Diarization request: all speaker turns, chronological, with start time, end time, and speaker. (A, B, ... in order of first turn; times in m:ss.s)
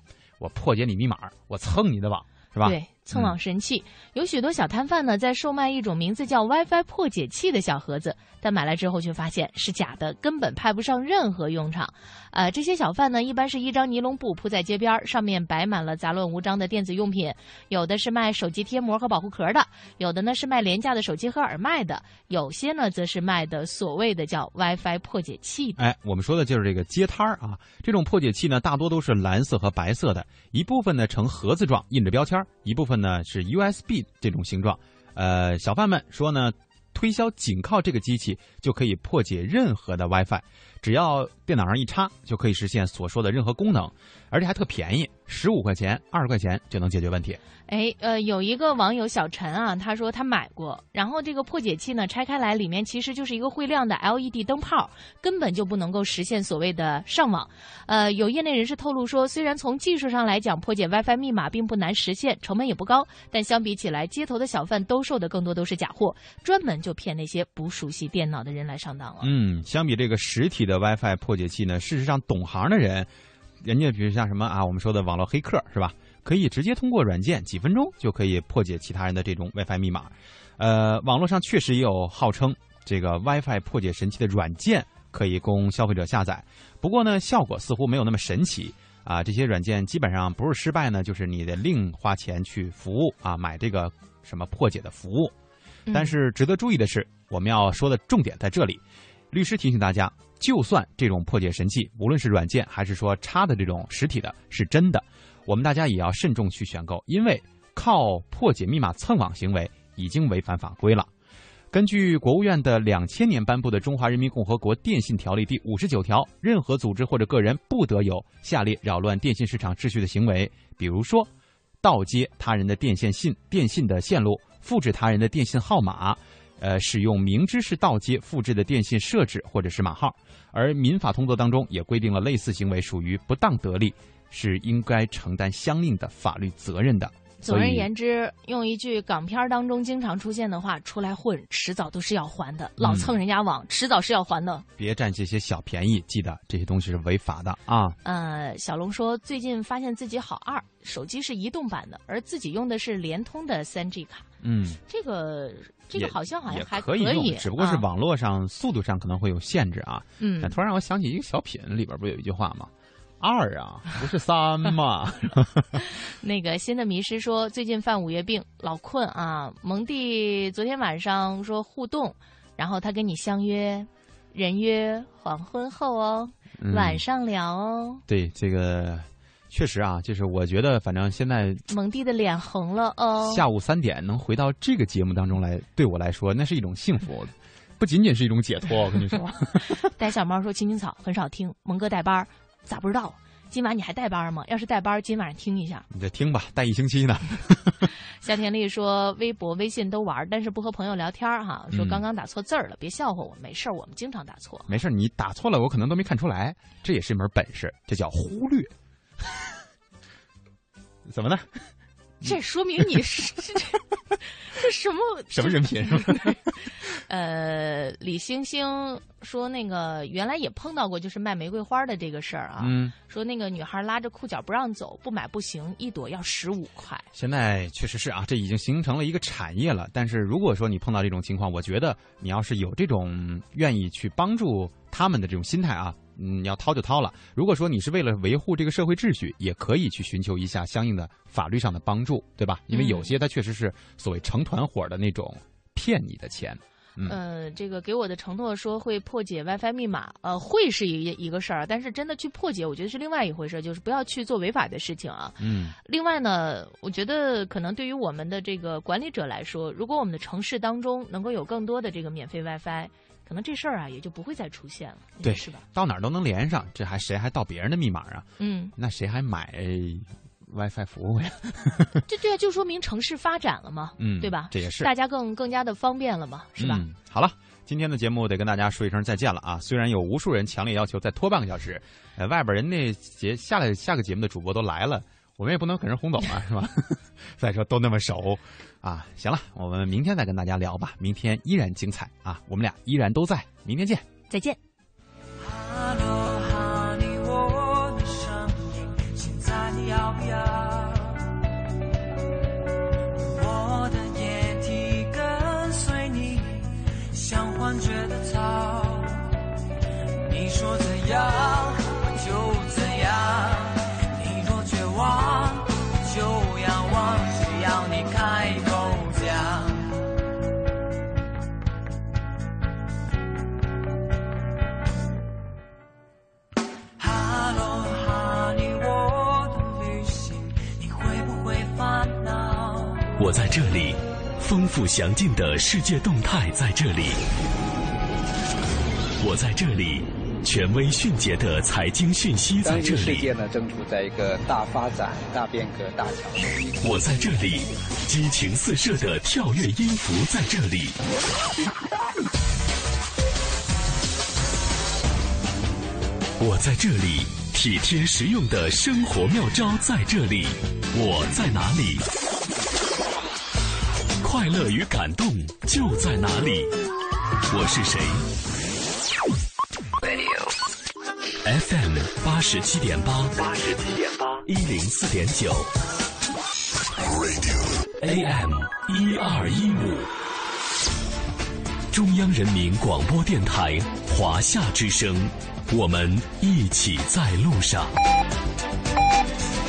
0:00.4-0:03.4 A
0:02.6-0:25.8 B
0:25.8-0:47.4 A
0:47.7-1:09.3 B
1:09.2-1:13.1 A
1:13.6-1:35.3 A
1:35.9-1:36.2 B
1:35.9-1:51.1 A
1:51.7-2:01.3 A
2:01.8-2:17.9 A
2:17.4-2:24.7 B
2:22.8-2:23.1 A
2:24.8-2:28.0 A
2:28.0-2:34.3 B
2:34.4-2:34.8 A
2:34.9-2:37.9 B
2:36.0-2:45.7 A
2:40.2-2:40.6 B
2:45.8-2:58.0 B
2:56.6-2:57.0 A
2:58.1-3:01.6 A
3:01.7-3:03.4 B
3:03.2-3:09.8 A
3:09.8-3:15.8 B
3:15.9-3:17.9 A
3:18.2-3:24.7 B
3:21.7-3:22.0 A
3:24.7-3:28.7 A
3:31.1-3:31.6 A
3:32.2-3:36.4 B
3:35.3-3:36.5 A
3:36.9-3:47.1 B
3:42.6-3:42.9 A
3:47.1-4:07.2 A
4:02.7-4:03.1 B
4:07.0-4:25.6 B
4:15.4-4:15.8 A
4:25.2-4:32.0 A
4:28.4-4:28.8 B
4:32.1-4:36.8 B
4:34.0-4:34.9 A
4:36.6-4:54.1 A
4:54.3-4:54.6 B
4:55.6-5:01.0 C
5:03.4-5:09.2 C
5:10.3-5:19.8 C
5:27.0-5:33.0 C
5:33.2-5:37.2 D
5:39.2-5:43.3 D
5:42.6-5:46.4 E
5:46.8-5:51.0 D
5:56.4-6:02.0 D
6:04.2-6:06.7 D
6:07.5-6:08.2 D
6:11.4-6:13.4 D
6:14.4-6:15.7 D
6:18.0-6:20.1 D
6:21.9-6:27.9 D